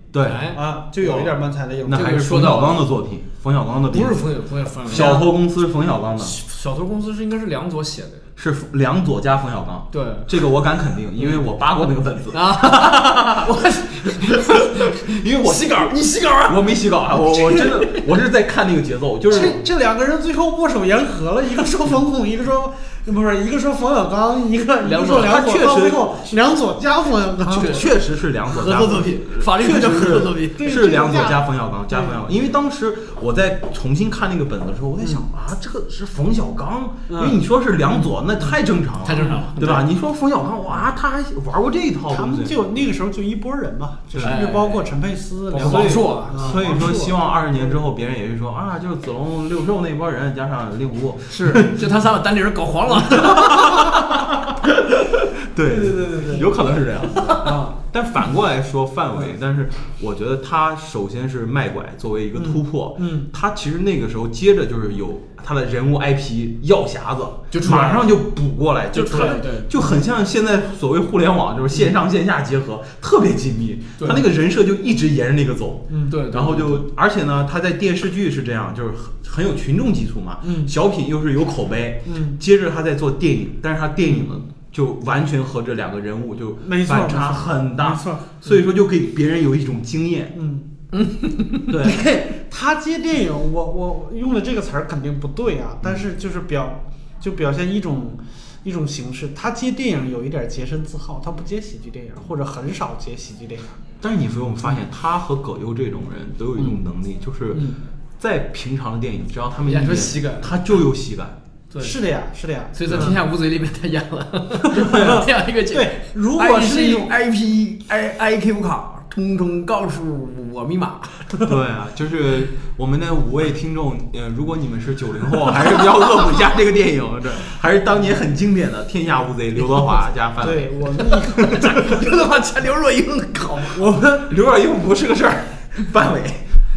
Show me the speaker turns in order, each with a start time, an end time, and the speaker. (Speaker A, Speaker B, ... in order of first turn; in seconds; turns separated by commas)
Speaker A: 0.1-0.5, Speaker B: 0.2-1.3, Speaker C: 0.5-2.2, Speaker A: 1.9-4.3, Speaker B: 1.9-2.8, Speaker B: 3.9-5.3, Speaker A: 4.9-6.4, Speaker C: 4.9-5.2, Speaker B: 6.2-8.3, Speaker A: 8.4-19.6, Speaker B: 9.9-10.3, Speaker B: 12.3-18.0, Speaker C: 19.3-27.8, Speaker B: 24.8-26.0, Speaker A: 27.5-42.6, Speaker B: 27.5-27.9, Speaker B: 28.5-30.9, Speaker C: 30.6-32.2, Speaker C: 37.1-37.4, Speaker B: 39.0-39.9, Speaker C: 42.1-47.1, Speaker A: 44.1-44.4, Speaker B: 44.2-44.8, Speaker B: 45.5-47.1, Speaker A: 45.5-51.9, Speaker B: 51.3-53.6, Speaker A: 53.1-90.3, Speaker C: 55.6-56.6, Speaker B: 57.1-57.5, Speaker C: 57.4-57.8, Speaker C: 62.4-63.3, Speaker B: 67.5-68.2, Speaker B: 68.9-69.7, Speaker C: 75.9-76.2, Speaker B: 76.1-76.8, Speaker C: 80.4-80.7, Speaker C: 82.1-82.4, Speaker C: 86.6-88.2, Speaker C: 90.3-90.7, Speaker B: 90.9-91.7, Speaker A: 91.7-92.0, Speaker C: 91.8-103.8, Speaker A: 104.0-111.4, Speaker C: 107.5-107.8, Speaker B: 109.6-110.5, Speaker B: 111.7-112.0, Speaker C: 111.8-113.1, Speaker B: 112.7-121.3, Speaker A: 112.9-113.1, Speaker C: 114.8-117.1, Speaker A: 114.8-115.2, Speaker A: 121.4-131.9, Speaker C: 130.4-131.7, Speaker B: 131.4-133.8, Speaker C: 133.8-134.3, Speaker A: 134.2-136.6